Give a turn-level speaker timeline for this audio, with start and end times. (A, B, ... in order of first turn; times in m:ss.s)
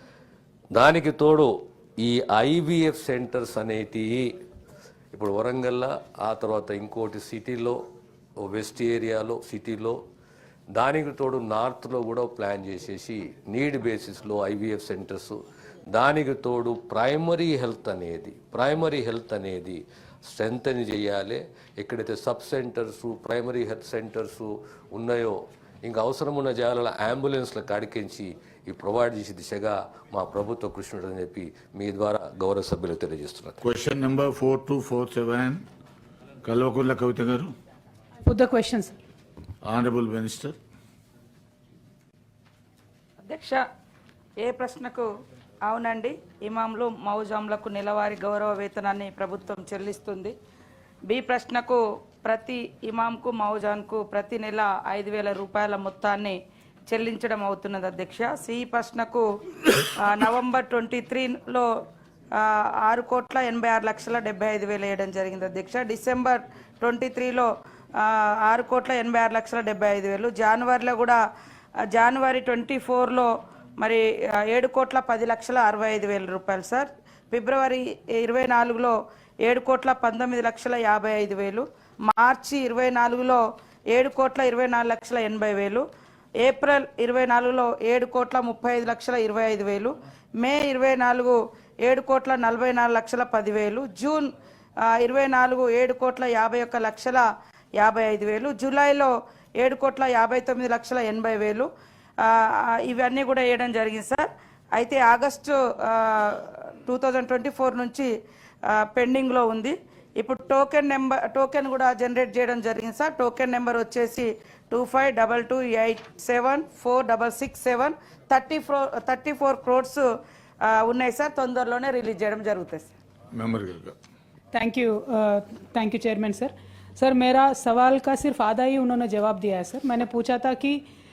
0:00.7-0:04.3 A
0:05.1-0:07.8 A
0:08.4-0:10.0 A
0:10.7-0:15.4 A
0:15.9-0:33.6 A
0:33.6-0:35.6 B
0:36.4-0:37.5 B
0:38.2-0:38.9 C
0:39.6-0:40.6 B
0:43.2-0:43.6 D
0:44.4-0:45.1 D
0:45.6-0:50.4 D
0:51.1-0:56.4 D
0:56.9-1:01.6 D
1:02.4-1:07.5 D
1:08.0-1:11.2 D
1:11.9-1:13.3 D
1:13.8-1:25.8 D
1:26.4-1:34.3 D
1:34.9-1:37.2 D
1:37.8-1:41.7 D
1:42.2-1:48.1 D
1:48.7-2:00.0 D
2:00.6-2:02.9 D
2:03.3-2:03.9 B
2:04.5-2:10.8 C